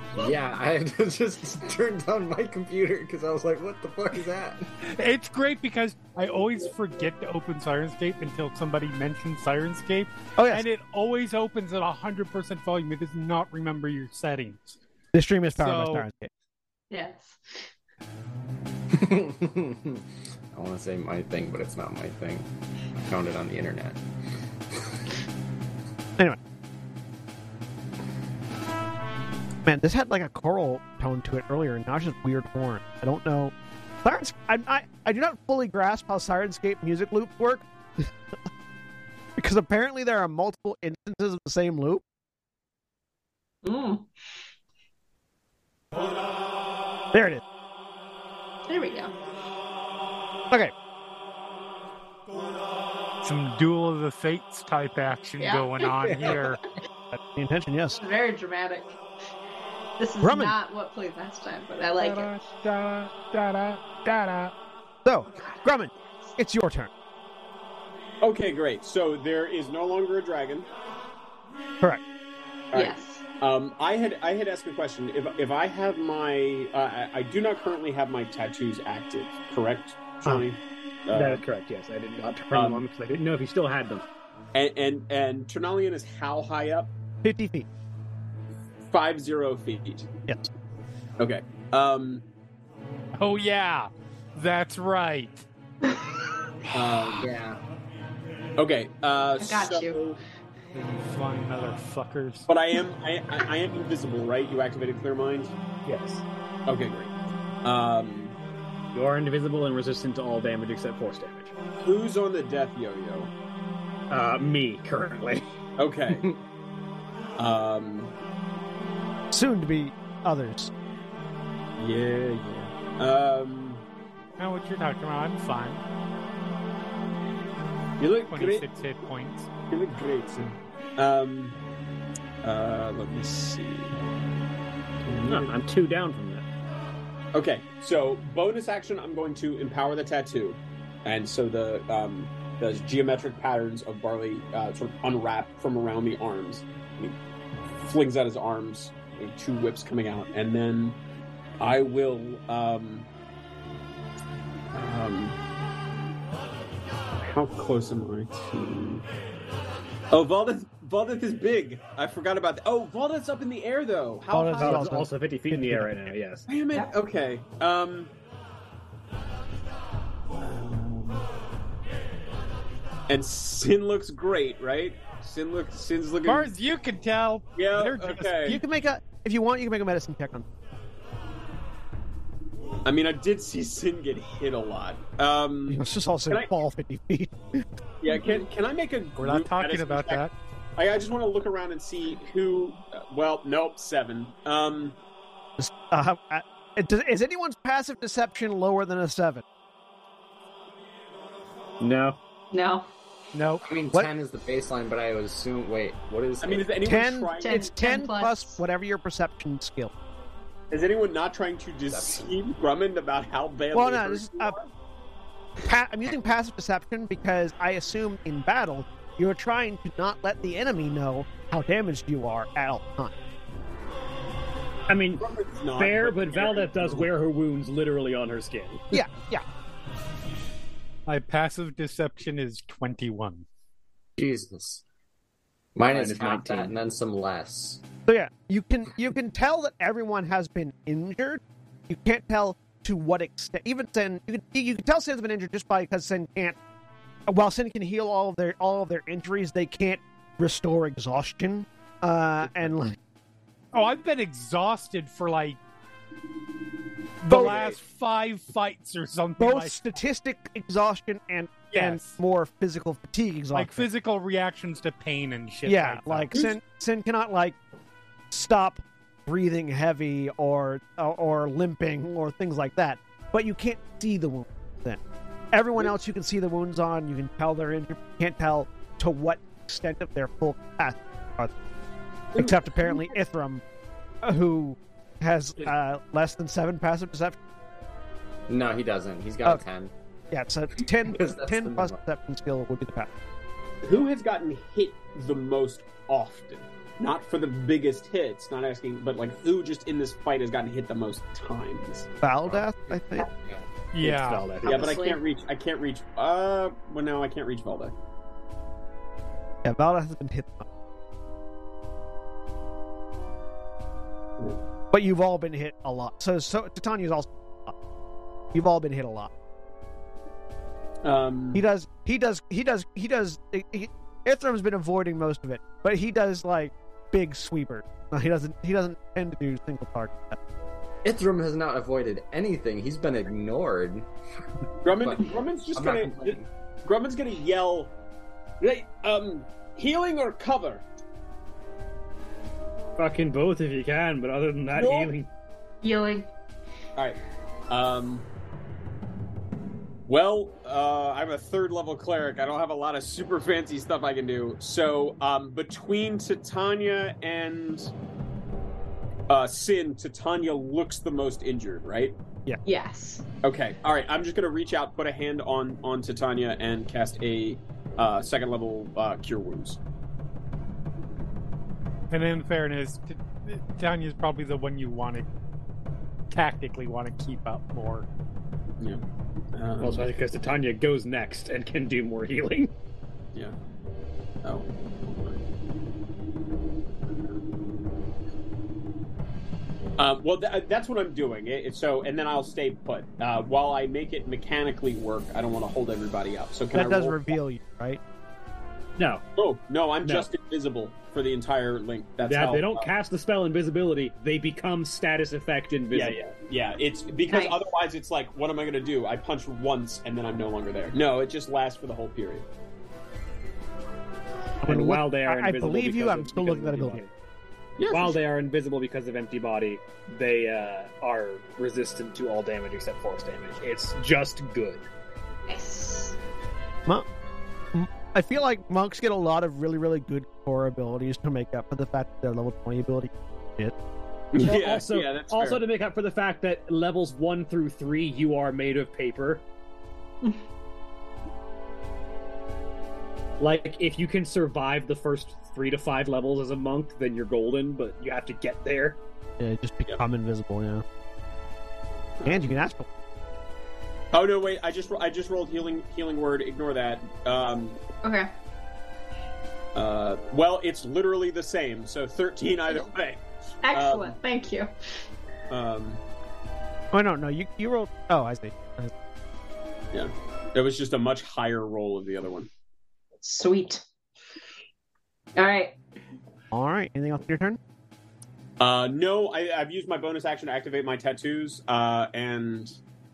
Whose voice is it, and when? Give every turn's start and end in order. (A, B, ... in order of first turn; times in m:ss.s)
0:00.1-0:04.6 A
0:04.8-0:14.8 B
0:10.4-0:10.6 C
0:15.1-0:16.3 C
0:15.5-0:16.0 B
0:16.9-0:17.7 D
0:18.9-0:24.0 A
0:29.6-0:38.1 C
0:39.4-0:42.0 C
0:43.6-0:44.1 D
0:47.1-0:47.4 C
0:48.7-0:49.1 D
0:53.2-0:56.6 B
0:55.4-0:56.4 D
0:57.1-0:58.0 C
0:58.0-0:59.0 D
1:00.0-1:02.3 D
1:00.2-1:00.5 C
1:02.0-1:04.5 B
1:05.0-1:06.9 C
1:05.4-1:05.6 D
1:08.2-1:10.7 E
1:12.7-1:21.4 E
1:12.7-1:13.2 D
1:21.1-1:24.0 F
1:22.5-1:22.8 E
1:24.5-1:26.9 E
1:27.2-1:27.7 C
1:28.9-1:30.1 E
1:31.2-1:32.2 E
1:33.2-1:35.4 B
1:35.8-1:36.2 D
1:36.7-1:37.3 E
1:37.2-1:37.6 A
1:38.6-1:40.2 E
1:39.4-1:40.0 D
1:40.7-1:42.5 B
1:42.5-1:45.5 E
1:45.8-1:46.2 F
1:46.7-1:48.4 E
1:48.9-1:51.5 F
1:51.8-1:53.3 E
1:54.1-1:55.4 F
1:55.8-1:56.3 E
1:57.4-1:58.1 E
1:59.3-2:00.7 C
2:01.8-2:03.8 E
2:04.4-2:05.8 B
2:08.0-2:08.6 E
2:08.3-2:09.5 B
2:09.7-2:11.6 E
2:12.4-2:14.0 E
2:15.0-2:15.5 E
2:15.2-2:16.4 F
2:17.3-2:27.2 E
2:27.8-2:31.0 E
2:31.6-2:33.1 E
2:34.7-2:35.4 E
2:37.2-2:39.0 E
2:40.1-2:45.0 E
2:44.3-2:46.1 C
2:44.6-2:46.4 F
2:46.5-2:48.1 E
2:50.4-2:51.3 E
2:53.1-2:56.5 E
2:56.2-2:58.6 B
2:57.6-2:58.6 E
2:58.4-3:00.4 C
3:02.8-3:05.8 E
3:05.7-3:07.7 C
3:08.0-3:10.2 E
3:09.2-3:10.3 B
3:10.8-3:15.0 E
3:15.6-3:19.4 C
3:21.8-3:22.2 F
3:22.5-3:22.9 D
3:23.3-3:23.6 B
3:23.6-3:27.0 A
3:26.4-3:27.7 E
3:26.8-3:29.9 C
3:27.4-3:28.6 D
3:30.7-3:34.7 E
3:31.9-3:32.3 A
3:33.7-3:34.6 C
3:35.6-3:43.2 C
3:44.9-3:49.0 F
3:45.2-3:47.1 E
3:48.9-3:49.4 C
3:51.1-3:53.4 B
3:54.2-3:54.8 A
3:55.8-3:57.8 A
3:55.9-3:56.7 F
3:58.1-4:06.6 C
4:07.3-4:13.0 C
4:13.7-4:15.6 B
4:17.2-4:19.8 B
4:17.3-4:17.7 C
4:17.3-4:17.7 E
4:19.4-4:23.9 C
4:21.7-4:22.2 B
4:23.5-4:26.3 B
4:25.6-4:27.6 C
4:26.3-4:26.6 E
4:28.3-4:35.0 C
4:35.5-4:41.5 C
4:42.3-4:43.2 E
4:42.4-4:43.6 C
4:44.2-4:47.4 C
4:48.5-4:49.9 A
4:50.3-4:53.1 C
4:51.0-4:52.0 A
4:53.8-5:02.1 E
5:02.2-5:03.3 C
5:03.3-5:03.6 A
5:03.9-5:04.5 B
5:04.0-5:04.9 F
5:04.6-5:07.9 E
5:04.6-5:05.2 D
5:09.6-5:10.6 C
5:14.9-5:17.7 C
5:18.5-5:19.3 C
5:21.0-5:21.6 E
5:21.5-5:30.4 C
5:31.0-5:34.1 A
5:34.8-5:37.9 E
5:34.9-5:36.5 A
5:38.6-5:40.8 E
5:43.0-5:45.3 F
5:44.8-5:45.1 E
5:45.8-5:46.3 D
5:47.0-5:48.3 E
5:50.1-5:57.9 E
5:59.3-6:02.2 E
6:02.6-6:03.2 D
6:03.4-6:09.8 E
6:12.1-6:15.2 B
6:16.3-6:18.0 B
6:19.5-6:20.1 E
6:19.8-6:22.7 F
6:24.4-6:25.4 E
6:30.0-6:37.3 E
6:36.7-6:38.0 C
6:39.0-6:39.2 F
6:39.4-6:42.9 E
6:40.0-6:40.3 F
6:42.2-6:46.2 F
6:45.9-6:52.5 E
6:47.3-6:47.6 D
6:54.6-6:57.0 C
6:54.6-6:57.1 F
6:57.8-6:58.2 E
6:57.9-7:04.8 F
7:05.5-7:06.2 D
7:07.7-7:13.7 C
7:14.3-7:15.6 E
7:14.4-7:19.4 F
7:23.4-7:29.0 F
7:29.4-7:30.8 C
7:32.2-7:32.6 E
7:32.2-7:32.9 C
7:34.1-7:37.8 E
7:38.0-7:38.3 D
7:39.7-7:44.2 E
7:43.6-7:44.7 D
7:45.5-7:46.0 E
7:46.9-7:48.9 C
7:49.9-7:52.5 E
7:53.2-7:53.8 D
7:55.4-7:55.8 D
7:56.5-7:57.6 C
7:58.6-8:02.7 E